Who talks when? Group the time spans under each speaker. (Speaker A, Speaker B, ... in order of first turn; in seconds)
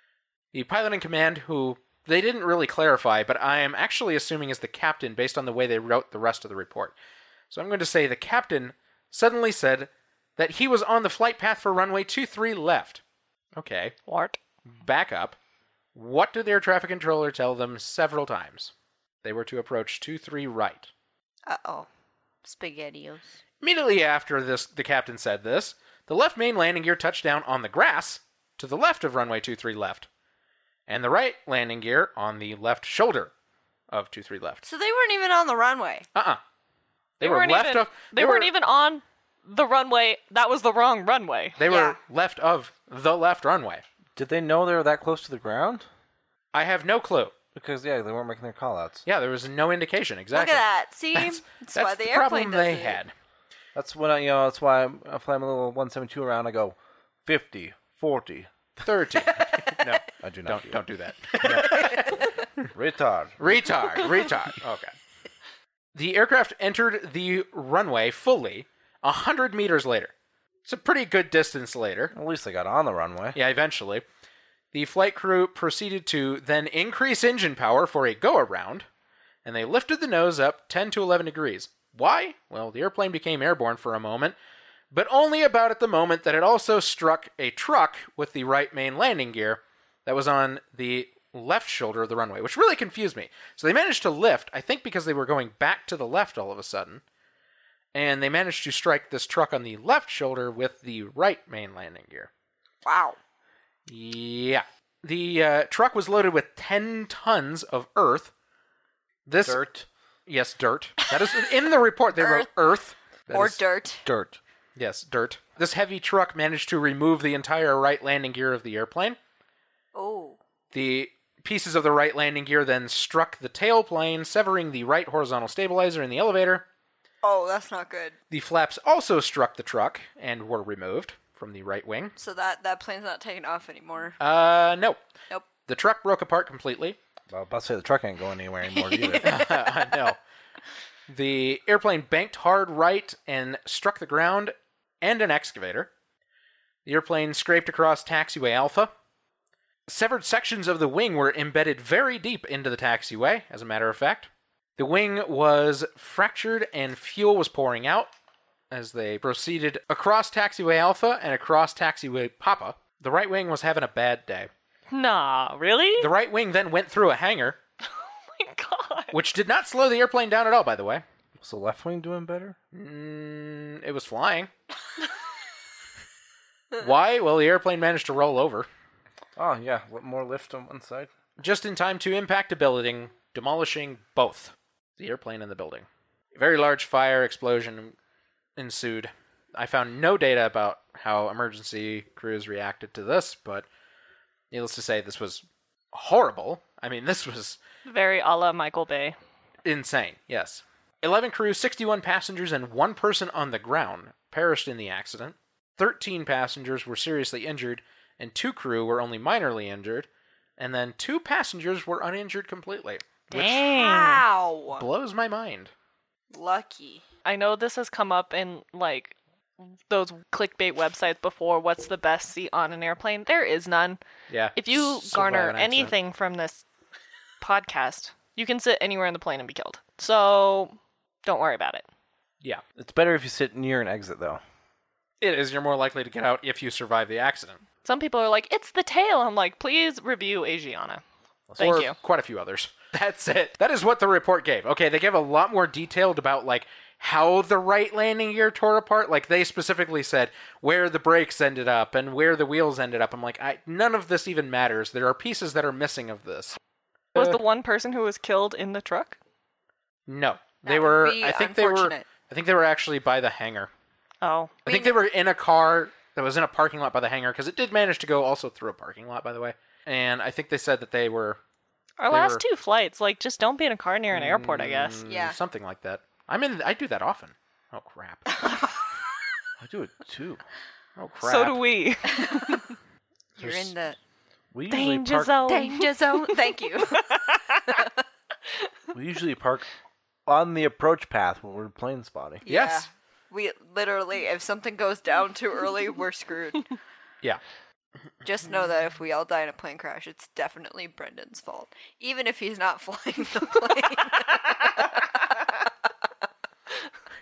Speaker A: 0.5-6.9, 7.5-13.0, 13.6-13.9, 14.7-15.4, 15.9-18.7, 19.2-20.9, 23.6-30.1, 30.9-33.3, 33.9-34.6, 36.1-36.4, 37.2-38.5, 41.6-43.8, 46.5-47.3, 49.0-53.1, 58.8-62.7, 63.4-64.9, 65.9-70.1, 70.6-72.1, 73.3-74.0, 74.7-78.8, 79.4-84.3, 84.9-97.0, 97.9-102.3, 103.9-108.3, 109.2-109.6, 110.3-113.6, 114.8-119.2, 120.7-126.7, 128.3-132.1, 134.2-135.0, 135.7-137.0, 139.2-140.2, 141.1-145.9, 146.8-148.9, 149.9-158.1, 158.7-164.5, 166.0-167.6, 169.1-171.0, 172.7-174.5, 176.8-178.7, 181.4-187.9, 188.6-193.7, 194.5-197.6, 199.6-213.7, 214.7-215.7, 224.3-225.9, 235.2-237.6, 241.6-256.6, 260.1-263.7, 264.6-271.4, 272.1-272.4, 274.1-278.4, 281.0-281.6, 283.4-283.7, 292.5-292.9
Speaker B: 14.1-14.4, 37.2-41.6, 164.9-166.1, 168.3-169.1, 197.8-199.2, 213.3-214.2, 217.2-224.0, 224.6-226.6, 227.4-231.8, 237.8-241.0, 241.6-241.9, 257.1-259.2, 264.2-264.6, 272.0-275.0, 281.2-282.7, 284.7-286.3, 287.1-287.8
Speaker C: 21.5-21.9, 22.4-23.4, 34.6-36.1, 41.6-42.0, 50.3-53.0, 102.8-103.2, 112.1-112.5, 113.3-114.0, 119.9-120.4, 127.2-128.1, 132.2-134.2, 138.7-139.9, 213.7-214.8, 216.3-217.0, 260.6-262.0, 264.6-264.9, 275.0-275.4, 283.4-284.0, 285.5-287.9, 292.4-296.7, 298.2-305.6
Speaker D: 44.1-45.9, 47.5-49.0, 53.7-58.8, 60.2-60.8, 61.4-62.0, 62.7-64.3, 72.1-73.4, 109.4-109.9, 114.0-114.4, 137.3-139.4, 171.4-172.6, 179.3-181.1, 232.8-234.4, 241.5-241.8, 279.6-280.4, 284.5-285.4, 288.9-289.6, 290.2-292.4